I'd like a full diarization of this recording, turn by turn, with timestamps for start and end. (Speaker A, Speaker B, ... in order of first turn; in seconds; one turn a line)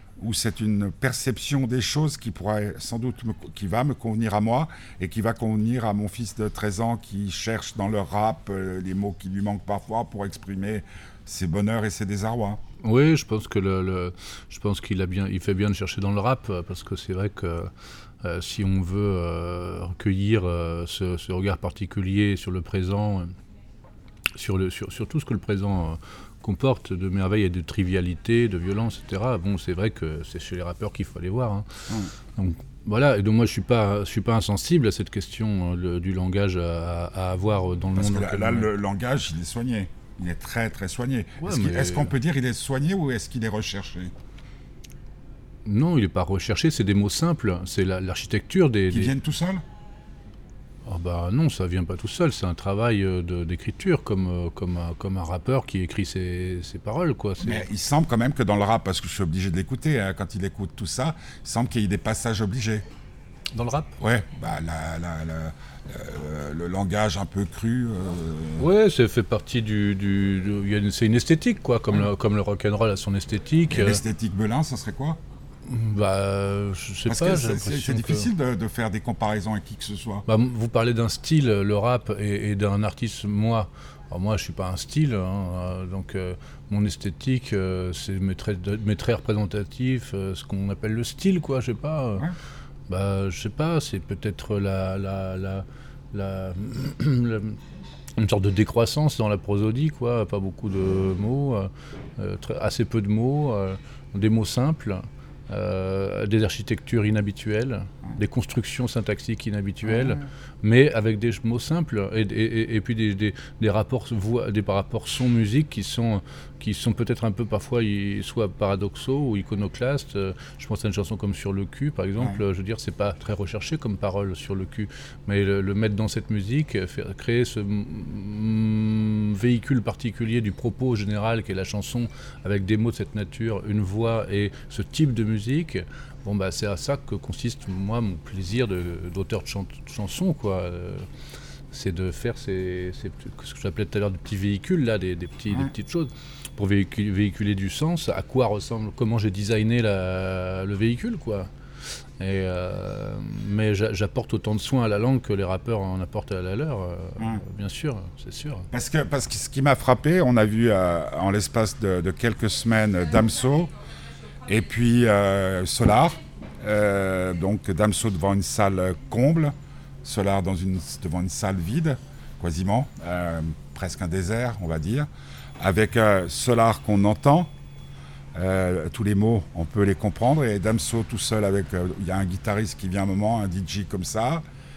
Speaker A: 0.2-12.6
Speaker B: 12.8-23.4
Speaker B: 24.3-38.7
Speaker A: 38.0-44.1
Speaker B: 41.4-42.1
Speaker B: 45.6-49.1
Speaker A: 48.9-49.6
Speaker B: 50.9-57.7
Speaker A: 57.4-62.9
Speaker B: 63.5-64.0
Speaker A: 64.0-68.7
Speaker B: 68.6-74.0
Speaker A: 73.7-75.2
Speaker B: 75.7-78.3
Speaker A: 77.1-80.3
Speaker B: 80.3-92.3
Speaker B: 92.9-97.6
Speaker B: 98.2-141.1
Speaker A: 109.8-110.3
Speaker B: 141.7-151.5
Speaker B: 152.2-158.7
Speaker A: 158.7-163.7
Speaker A: 164.5-177.5
Speaker A: 178.3-184.4